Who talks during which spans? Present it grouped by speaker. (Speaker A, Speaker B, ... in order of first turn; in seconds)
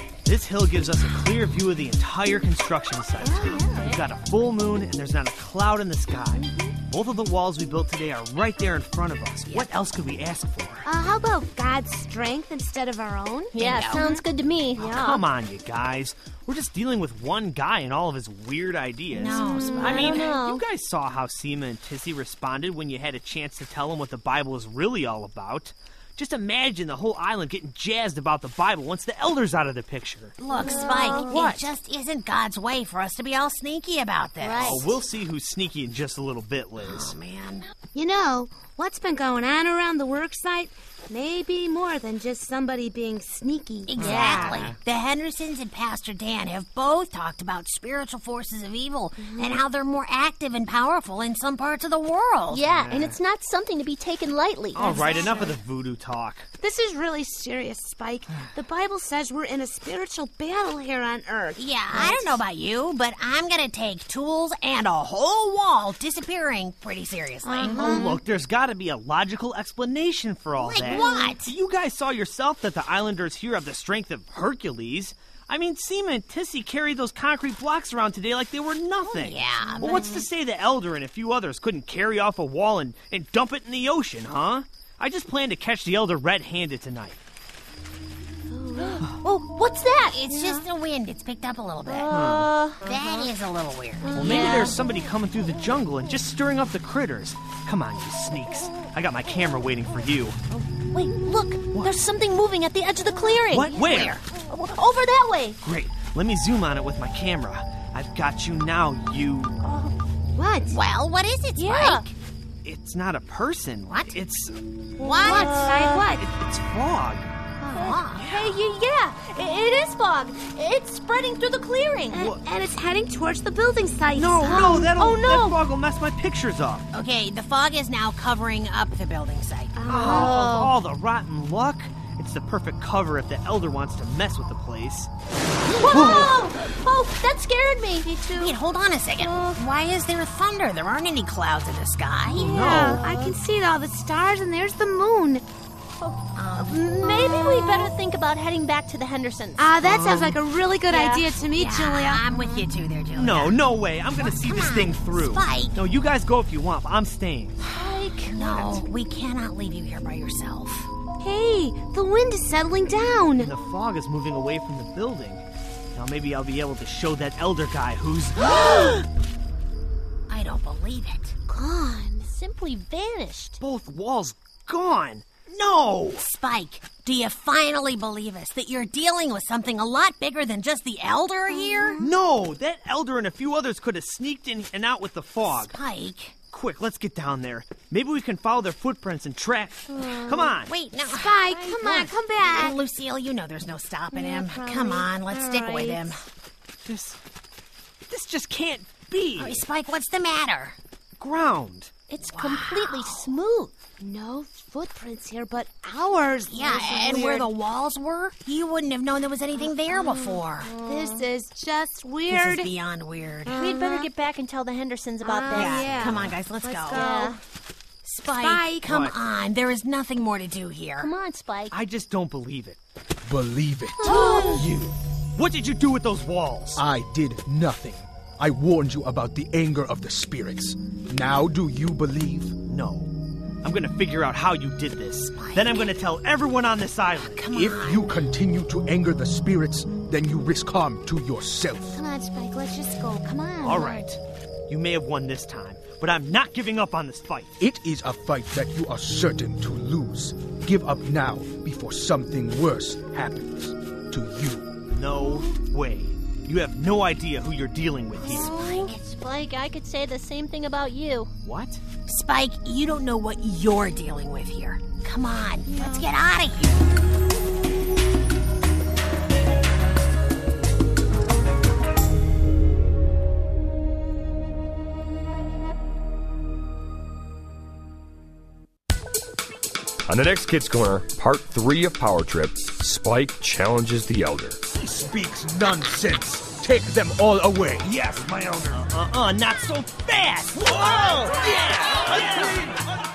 Speaker A: 0.2-10.9, 14.8-30.4, 31.2-31.7, 34.6-37.2, 44.1-44.7, 52.6-53.2, 54.8-56.5, 67.7-87.2, 92.1-92.5, 94.2-100.4, 103.5-104.2, 105.6-109.6, 112.6-114.6, 116.1-117.3, 118.2-118.5, 124.2-126.9, 129.9-135.1, 142.4-143.0, 149.8-150.3, 153.1-157.7, 158.3-158.8, 163.4-168.6, 173.6-176.3, 182.0-185.8, 186.5-190.7, 196.8-197.2, 198.1-199.7, 201.2-201.9, 218.8-219.2, 221.7-222.8, 224.2-226.8, 232.7-233.1, 233.6-237.4, 243.6-247.6, 254.9-258.5, 261.4-261.8, 287.8-292.6
Speaker B: 3.2-3.8, 10.8-15.2, 19.4-20.3, 30.6-31.3, 37.9-44.5, 49.2-49.6, 54.8-55.5, 56.6-62.4, 67.9-68.2, 70.9-71.4, 79.6-80.2, 88.5-89.1, 90.3-90.7, 94.0-94.8, 103.6-104.0, 110.3-110.8, 115.0-116.2, 117.6-118.0, 122.1-125.1, 129.8-130.7, 138.1-138.6, 142.3-145.4, 147.3-147.9, 149.6-152.8, 161.2-163.5, 168.4-168.8, 171.5-172.3, 181.5-182.2, 189.9-190.6, 191.1-192.8, 194.1-196.2, 204.0-207.5, 209.9-212.7, 213.4-214.2, 215.2-217.4, 218.4-218.9, 224.0-224.7, 241.9-244.1, 265.6-266.1
Speaker C: 13.5-14.9, 20.0-20.6, 30.7-31.3, 34.4-34.8, 44.0-44.7, 52.5-55.0, 67.5-67.7, 88.8-90.2, 91.9-92.9, 94.2-94.7, 100.5-105.6, 109.7-109.9, 111.6-112.0, 115.3-116.1, 117.7-122.2, 124.4-125.6, 129.9-130.4, 135.8-138.3, 139.2-139.6, 142.5-143.4, 146.0-150.2, 150.9-151.3, 157.8-158.3, 172.3-173.6, 202.1-203.7, 210.7-211.3, 213.6-216.0, 216.9-217.4, 221.0-221.7, 224.2-224.5, 258.3-261.3
Speaker D: 19.1-20.3, 30.4-34.9, 36.8-37.6, 43.9-52.7, 61.6-68.1, 70.6-71.5, 79.1-79.9, 90.1-92.1, 92.8-94.2, 104.0-104.2, 110.7-112.1, 113.9-114.2, 115.0-115.5, 117.8-118.3, 126.9-129.9, 135.9-136.5, 138.3-142.5, 146.4-147.2, 151.5-155.8, 157.8-160.9, 168.7-169.0, 170.3-171.4, 176.2-182.0, 185.4-186.4, 190.3-196.2, 199.4-200.8, 202.2-203.3, 206.5-210.7, 212.3-213.7, 215.5-217.1, 218.0-221.1, 235.4-235.9, 237.3-238.2, 258.2-259.0, 262.1-266.9
Speaker E: 223.3-224.2, 226.8-232.5, 237.5-242.0, 247.6-254.7, 284.7-287.9, 290.8-291.5, 292.1-292.8
Speaker F: 280.1-284.6